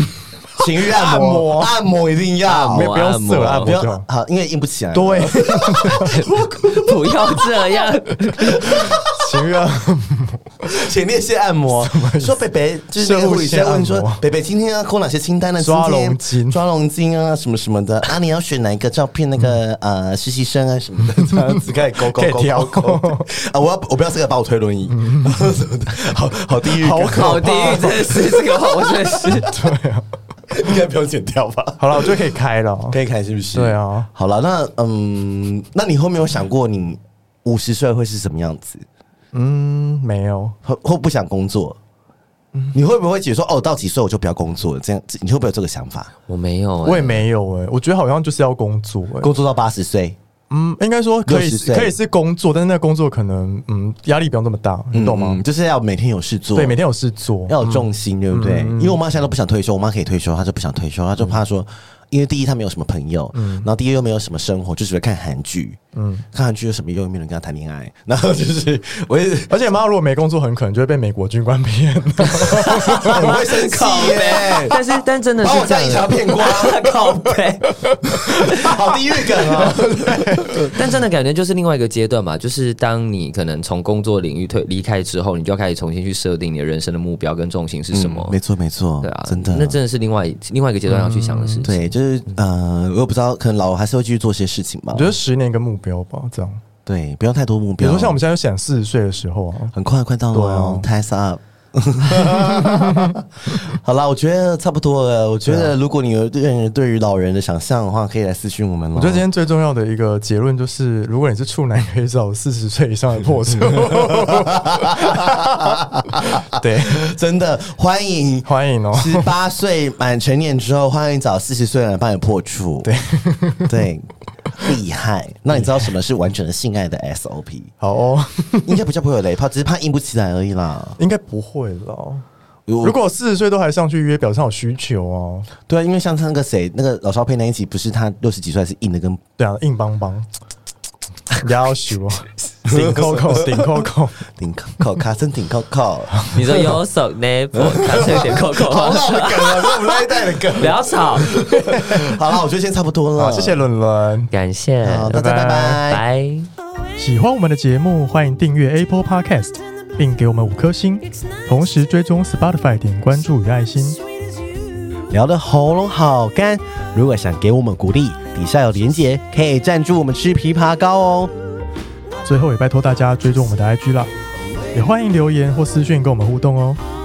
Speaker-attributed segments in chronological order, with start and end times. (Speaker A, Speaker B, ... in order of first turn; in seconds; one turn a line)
Speaker A: 0.6-7.3
Speaker B: 0.8-1.8
Speaker C: 2.5-3.8
Speaker B: 2.7-4.0
Speaker B: 4.9-6.2
Speaker C: 6.0-8.7
Speaker A: 8.5-9.0
Speaker B: 9.2-10.4
Speaker A: 10.7-29.5
Speaker B: 11.7-12.4
Speaker B: 13.0-14.2
Speaker B: 15.6-16.6
Speaker B: 22.1-23.2
Speaker B: 24.9-25.4
Speaker B: 26.8-28.1
Speaker C: 27.1-29.5
Speaker B: 29.4-30.1
Speaker A: 30.5-32.2
Speaker B: 31.8-33.0
Speaker A: 32.9-38.8
Speaker B: 33.5-34.1
Speaker B: 39.3-40.5
Speaker A: 40.6-41.8
Speaker A: 42.7-46.1
Speaker C: 46.3-47.2
Speaker B: 46.8-49.3
Speaker A: 49.2-50.2
Speaker B: 50.5-55.4
Speaker A: 51.2-52.0
Speaker A: 54.9-56.8
Speaker B: 56.5-59.0
Speaker A: 57.5-65.8
Speaker B: 63.3-63.7
Speaker B: 65.9-66.2
Speaker A: 66.3-69.5
Speaker B: 69.5-73.5
Speaker C: 72.4-77.7
Speaker A: 72.9-74.7
Speaker A: 75.4-76.9
Speaker C: 78.3-78.8
Speaker A: 78.6-80.7
Speaker B: 79.4-80.7
Speaker C: 80.7-88.4
Speaker A: 87.9-89.8
Speaker C: 89.0-91.9
Speaker B: 90.9-91.7
Speaker A: 91.6-95.2
Speaker B: 94.9-96.6
Speaker A: 96.8-98.2
Speaker B: 97.8-99.7
Speaker A: 99.7-109.3
Speaker B: 100.3-100.9
Speaker B: 102.2-103.2
Speaker B: 105.5-105.7
Speaker B: 108.9-115.8
Speaker A: 114.1-122.9
Speaker B: 116.4-117.0
Speaker B: 118.4-119.3
Speaker B: 122.8-123.8
Speaker A: 123.7-127.7
Speaker B: 125.5-125.9
Speaker B: 127.8-128.8
Speaker A: 128.7-131.0
Speaker B: 131.0-132.2
Speaker A: 132.7-133.0
Speaker B: 132.8-135.5
Speaker A: 135.7-139.2
Speaker B: 139.4-140.3
Speaker B: 141.4-144.2
Speaker A: 142.7-146.6
Speaker B: 146.3-146.6
Speaker C: 146.3-149.8
Speaker A: 147.7-153.6
Speaker C: 150.6-151.3
Speaker B: 151.5-152.1
Speaker B: 153.2-154.3
Speaker C: 154.3-155.2
Speaker A: 154.8-156.0
Speaker B: 155.1-155.8
Speaker C: 155.9-156.5
Speaker B: 157.0-164.0
Speaker A: 165.1-171.3
Speaker B: 172.2-174.1
Speaker B: 174.7-176.8